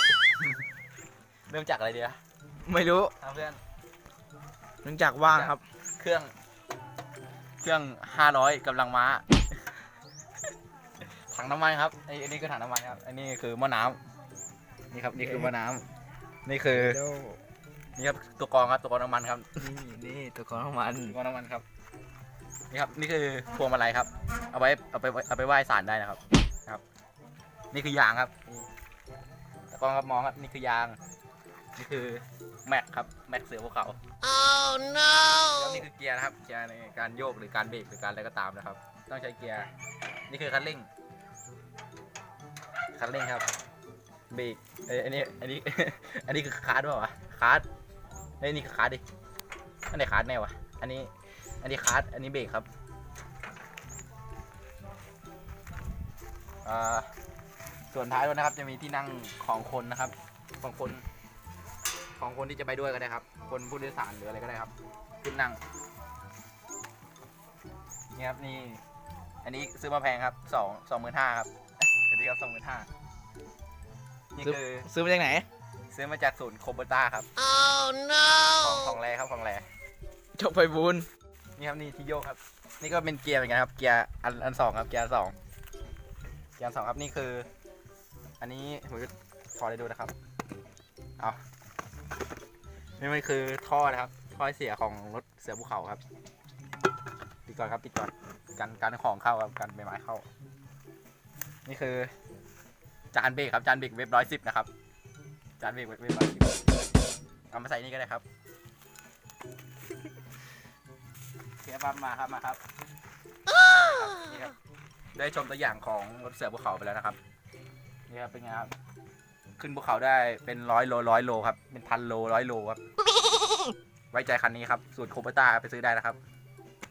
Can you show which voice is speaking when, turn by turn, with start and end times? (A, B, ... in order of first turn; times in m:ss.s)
0:01.5-0:02.2 A
0:02.6-0:03.1 B
0:03.2-0:03.6 A
0:04.8-0:05.6 B
0:05.3-0:06.3 A
0:07.6-0:09.3 A
0:11.2-0:14.0 A
0:14.9-0:15.9 A
0:15.2-0:15.5 B
0:16.4-0:17.0 A
0:16.7-0:17.4 B
0:18.0-0:19.6 A
0:19.6-0:21.2 B
0:21.0-0:21.6 A
0:22.7-0:26.8 A
0:27.7-0:28.4 A
0:29.7-0:31.0 A
0:31.7-0:34.0 A
0:34.2-0:35.4 C
0:35.4-0:39.7 A
0:40.3-0:40.9 A
0:42.9-0:43.5 A
0:44.3-0:47.6 A
0:48.4-0:49.0 A
0:49.9-0:52.7 A
0:56.6-0:57.1 A
0:57.9-1:01.0 A
1:02.2-1:05.6 A
1:08.1-1:08.8 A
1:09.4-1:12.9 A
1:14.3-1:14.9 A
1:14.4-1:15.5 B
1:15.9-1:17.3 A
1:17.5-1:18.3 C
1:18.2-1:19.7 A
1:20.3-1:21.1 B
1:21.6-1:25.4 A
1:26.6-1:27.5 A
1:28.4-1:30.1 A
1:33.0-1:36.0 A
1:37.4-1:40.2 A
1:41.6-1:42.1 A
1:43.1-1:44.7 A
1:45.6-1:46.7 A
1:47.5-1:48.2 A
1:51.6-1:52.6 A
1:53.5-1:54.6 A
1:55.1-1:57.2 A
1:58.1-1:58.7 A
1:59.6-2:02.8 A
2:04.1-2:06.2 A